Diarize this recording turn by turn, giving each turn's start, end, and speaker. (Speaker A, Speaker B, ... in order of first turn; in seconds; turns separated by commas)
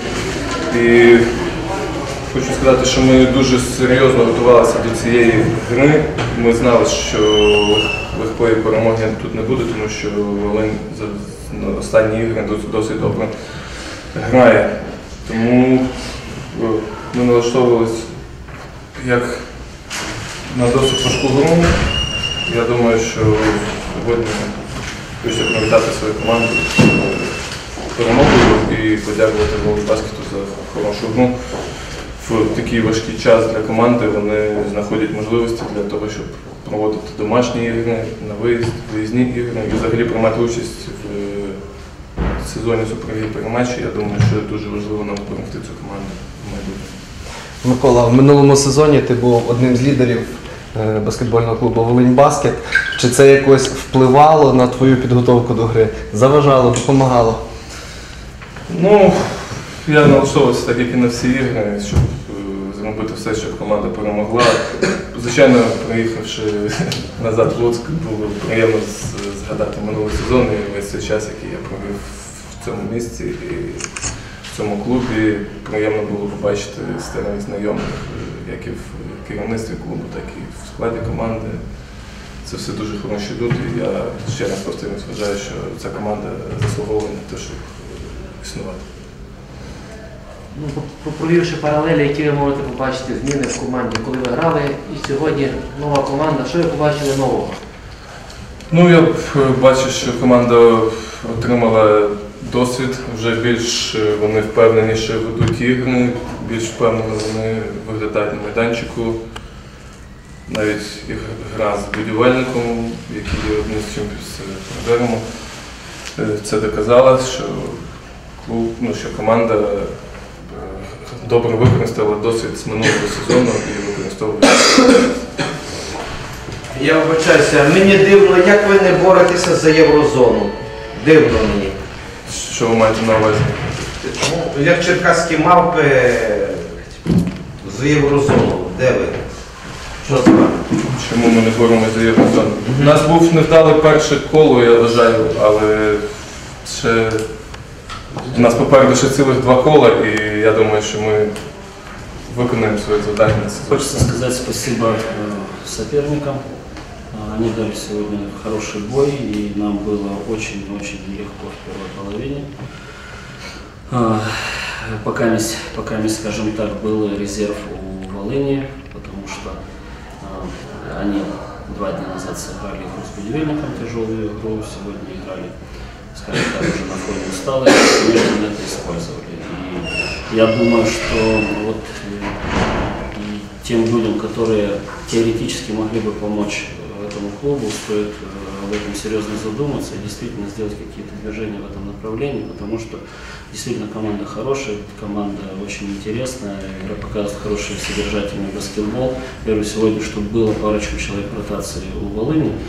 Speaker A: 0.6-1.3, Speaker A: 2.3-18.1, Speaker A: 18.9-19.4, Speaker A: 20.5-21.8, Speaker A: 22.4-27.4, Speaker A: 27.9-41.6, Speaker A: 42.4-46.9, Speaker B: 47.6-57.4, Speaker A: 58.7-73.9, Speaker A: 74.5-81.6, Speaker A: 82.4-88.8, Speaker C: 90.5-97.5, Speaker A: 98.7-109.2, Speaker A: 110.5-115.2, Speaker A: 116.1-117.8, Speaker A: 118.4-125.0, Speaker D: 126.7-131.8, Speaker A: 132.2-133.7, Speaker D: 134.0-139.2, Speaker D: 140.0-140.5, Speaker A: 140.1-147.2, Speaker A: 148.3-151.3, Speaker A: 152.2-154.0, Speaker E: 153.7-156.4, Speaker E: 157.1-162.5, Speaker E: 163.9-169.6, Speaker E: 170.2-175.5, Speaker E: 176.1-202.6